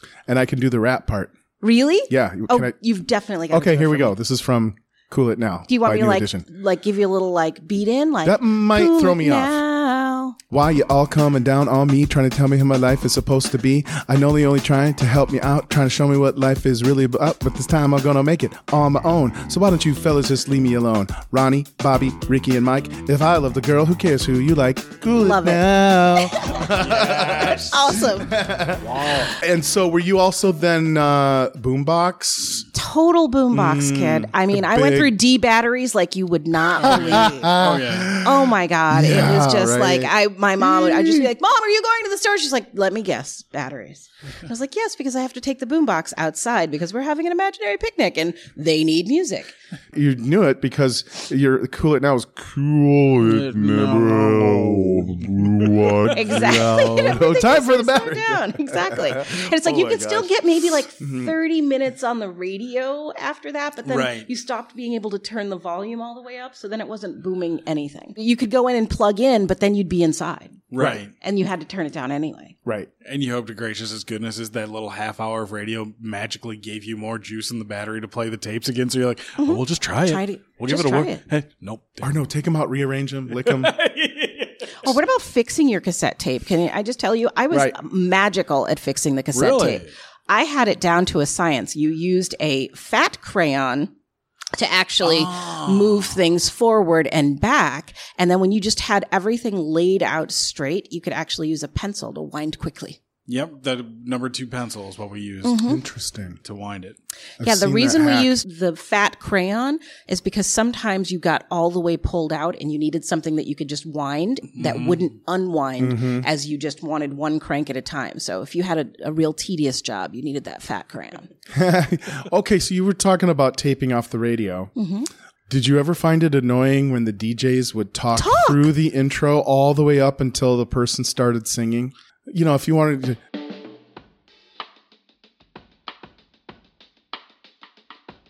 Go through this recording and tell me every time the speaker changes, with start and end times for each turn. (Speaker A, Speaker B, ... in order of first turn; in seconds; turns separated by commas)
Speaker A: 0.3-1.3, Speaker B: 1.6-4.2, Speaker A: 2.1-2.7, Speaker A: 3.5-6.4, Speaker B: 5.7-10.4, Speaker A: 8.2-9.6, Speaker A: 10.5-32.7, Speaker B: 25.2-25.6, Speaker B: 26.1-26.7, Speaker C: 26.4-28.0, Speaker B: 27.3-28.4, Speaker C: 28.7-29.4, Speaker B: 32.7-37.6, Speaker A: 33.5-35.1, Speaker A: 36.8-41.3, Speaker C: 36.8-38.1, Speaker B: 38.2-49.5, Speaker A: 49.9-60.3, Speaker C: 53.2-56.1, Speaker B: 56.1-72.6, Speaker A: 61.0-61.3, Speaker C: 63.8-64.3, Speaker C: 70.7-71.1, Speaker A: 70.8-71.0, Speaker A: 72.6-72.9, Speaker C: 73.0-82.1, Speaker B: 79.4-81.2, Speaker A: 82.0-83.7, Speaker C: 83.3-85.0, Speaker B: 84.8-93.9, Speaker A: 87.5-87.8, Speaker C: 89.3-89.9, Speaker B: 94.5-103.0, Speaker C: 95.0-96.2, Speaker C: 103.3-105.7, Speaker B: 105.4-105.8, Speaker A: 105.6-106.4, Speaker C: 106.4-107.0, Speaker A: 107.4-108.3, Speaker B: 107.4-121.3, Speaker C: 114.5-115.0, Speaker A: 115.8-116.3, Speaker A: 121.5-124.7, Speaker B: 124.8-125.1, Speaker A: 125.5-133.2, Speaker B: 128.1-128.7